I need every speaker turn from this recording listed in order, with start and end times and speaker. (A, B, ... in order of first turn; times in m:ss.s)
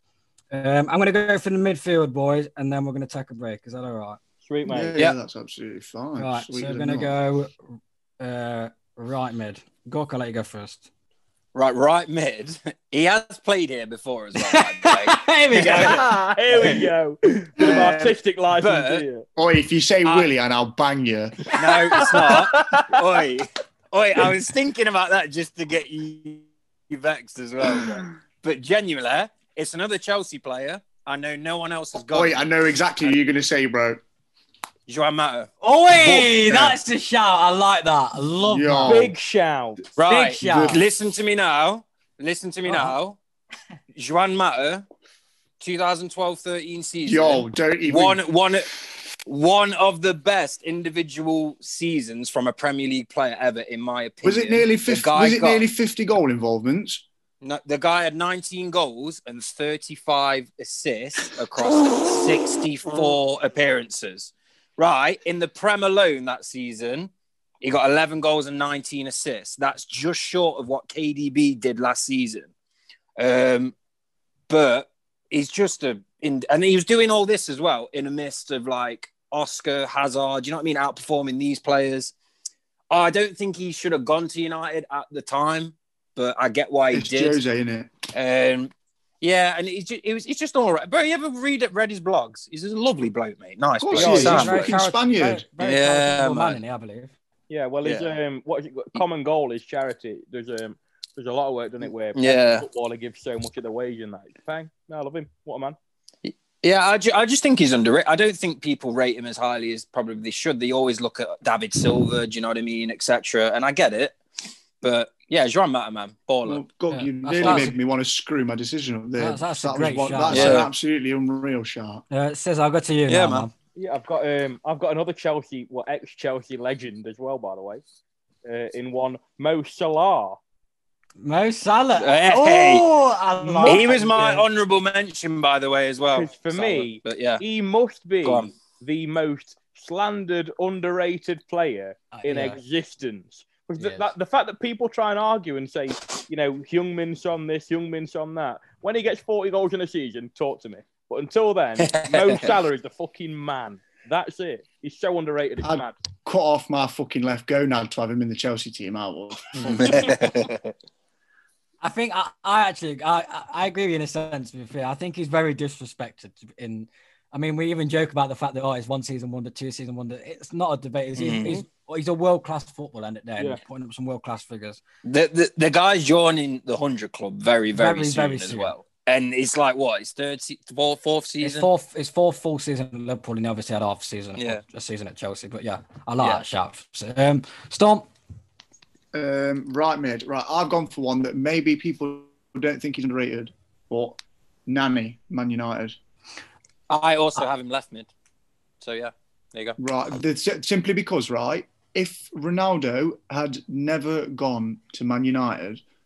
0:00.5-0:04.2 A
0:04.4-0:05.0 B
0:04.7-0:07.1 C
0:06.2-0:10.8 A
0:11.5-0:16.0 D
0:14.4-0:16.3 A
0:15.6-0:19.2 B
0:17.6-0:18.1 C
0:18.5-0:19.0 D
0:19.4-0:21.4 C
0:21.5-0:22.4 A
0:21.5-0:32.4 D
0:22.3-0:22.8 B
0:32.0-0:34.0 C
0:34.9-0:36.8 D
0:35.6-0:39.0 A
0:38.4-0:39.1 C
0:38.8-0:39.8 B
0:40.0-0:43.2 D
0:40.1-0:40.8 A
0:40.4-0:40.8 C
0:42.6-0:42.9 A
0:43.9-0:44.8 D
0:45.6-0:55.6 D
0:47.0-0:48.2 C
0:54.2-0:57.0 C
0:57.4-1:07.1 D
1:07.6-1:12.5 D
1:13.2-1:13.7 D
1:14.5-1:22.1 D
1:22.9-1:27.4 D
1:26.9-1:27.9 C
1:28.1-1:34.7 D
1:33.8-1:35.5 C
1:33.9-1:34.5 B
1:34.0-1:37.1 A
1:35.6-1:36.6 D
1:37.5-1:45.8 B
1:37.8-1:38.1 D
1:42.2-1:42.6 D
1:46.2-1:54.2 D
1:54.8-1:56.6 D
1:56.4-2:02.0 C
1:56.9-1:57.8 A
1:59.2-2:00.7 A
2:00.3-2:00.7 D
2:02.1-2:03.5 A
2:03.1-2:03.5 D
2:03.8-2:07.8 B
2:08.4-2:10.4 B
2:11.2-2:14.4 A
2:12.0-2:12.9 D
2:13.4-2:14.4 B
2:13.6-2:17.4 D
2:16.1-2:36.0 B
2:18.2-2:18.5 D
2:22.1-2:22.6 A
2:23.8-2:24.1 A
2:31.8-2:32.5 D
2:35.6-2:40.1 C
2:39.6-2:40.7 D
2:41.8-2:54.8 A
2:51.2-2:51.6 D
2:55.0-3:01.7 D
2:57.7-2:58.7 A
3:01.4-3:08.1 A
3:04.4-3:04.6 D
3:09.1-3:16.0 C
3:16.9-3:18.1 D
3:18.8-3:19.8 D
3:19.8-3:25.8 C